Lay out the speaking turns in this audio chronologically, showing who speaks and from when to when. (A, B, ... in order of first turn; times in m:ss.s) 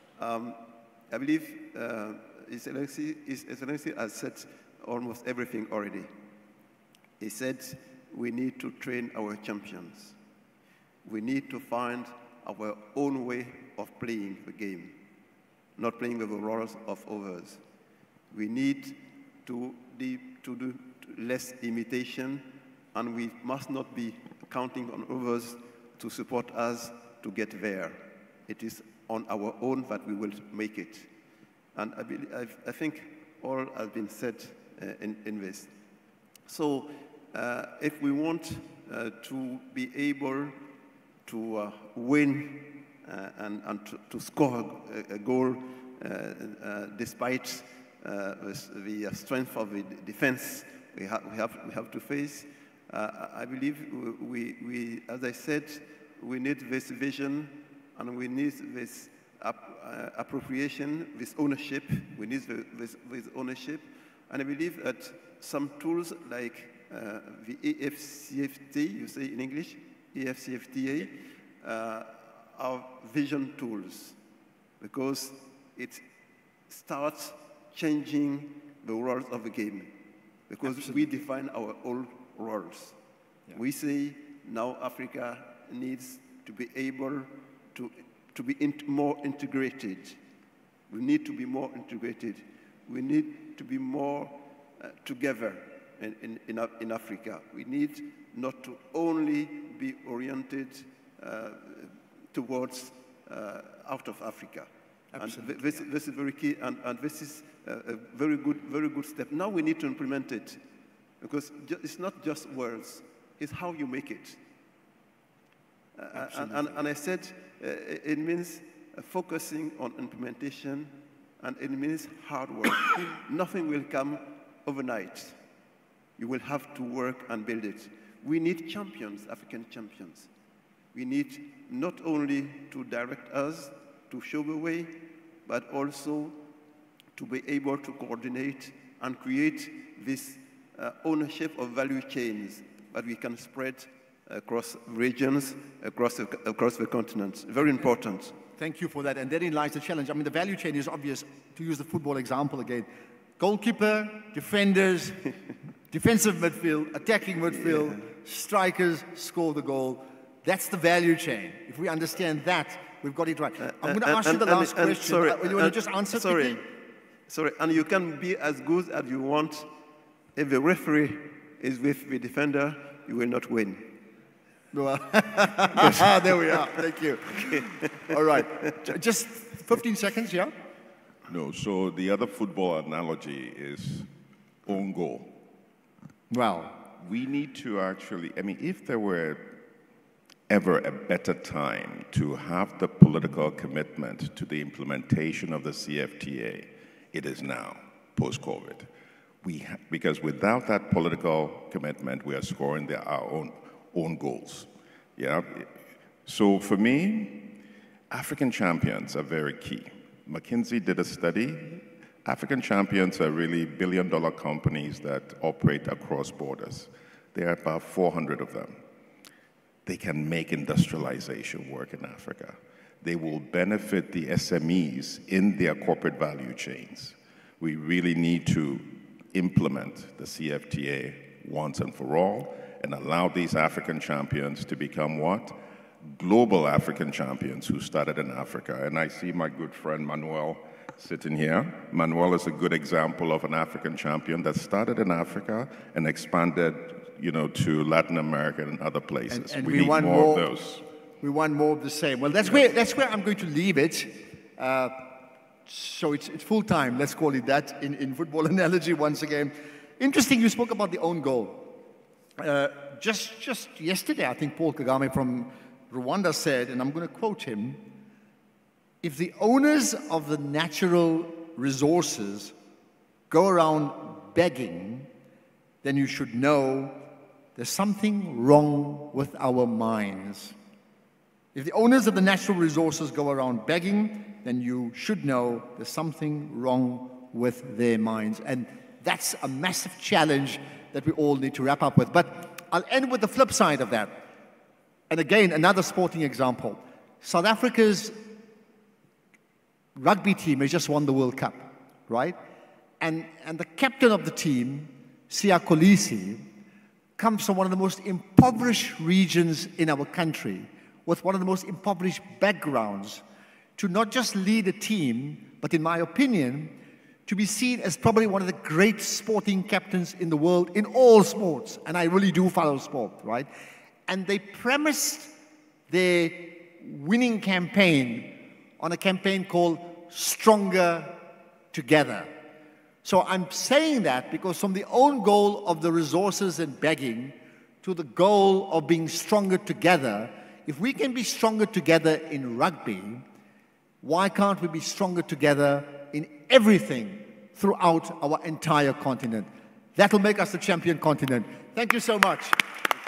0:00.2-0:06.1 A
0:07.2-0:10.2 A
0:11.0-0:15.0 A
0:15.8-0:17.6 A
0:18.3-0:31.1 A
0:31.7-0:35.7 A
0:36.4-0:40.6 A
0:41.3-1:14.2 A
1:14.8-1:16.0 A
1:16.7-1:20.0 A
1:20.5-1:23.0 A
1:20.6-1:21.0 B
1:23.5-1:30.2 A
1:30.9-1:50.6 A
1:45.2-1:45.8 B
1:51.2-1:54.4 A
1:56.0-2:05.4 A
1:56.2-1:56.7 B
2:06.2-2:10.3 A
2:10.9-2:16.4 A
2:17.2-2:28.4 A
2:28.6-2:32.9 B
2:33.4-2:35.3 B
2:35.9-2:46.6 B
2:43.6-2:46.7 A
2:47.3-2:49.7 A
2:50.4-2:53.9 A
2:54.7-3:00.5 B
2:55.8-2:56.7 A
2:57.4-2:58.8 A
3:01.3-3:04.1 C
3:04.7-3:05.4 C
3:06.3-3:06.8 B
3:07.0-3:09.6 C
3:10.5-3:18.9 C
3:19.4-3:25.7 C
3:26.2-3:27.6 C
3:28.1-3:38.8 C
3:39.8-4:10.9 C
4:09.3-4:10.5 B
4:11.2-4:21.8 B
4:22.4-4:27.8 B
4:29.0-4:32.6 B
4:33.3-4:35.1 B
4:35.8-4:40.6 B
4:41.6-4:54.3 B
4:55.1-4:58.3 B
5:00.0-5:02.4 B
5:03.0-5:06.4 B
5:07.2-5:13.2 B
5:13.8-5:23.5 B
5:24.1-5:25.3 B
5:25.9-5:31.2 B
5:31.7-5:32.3 B
5:33.0-5:43.2 B
5:44.0-5:52.7 B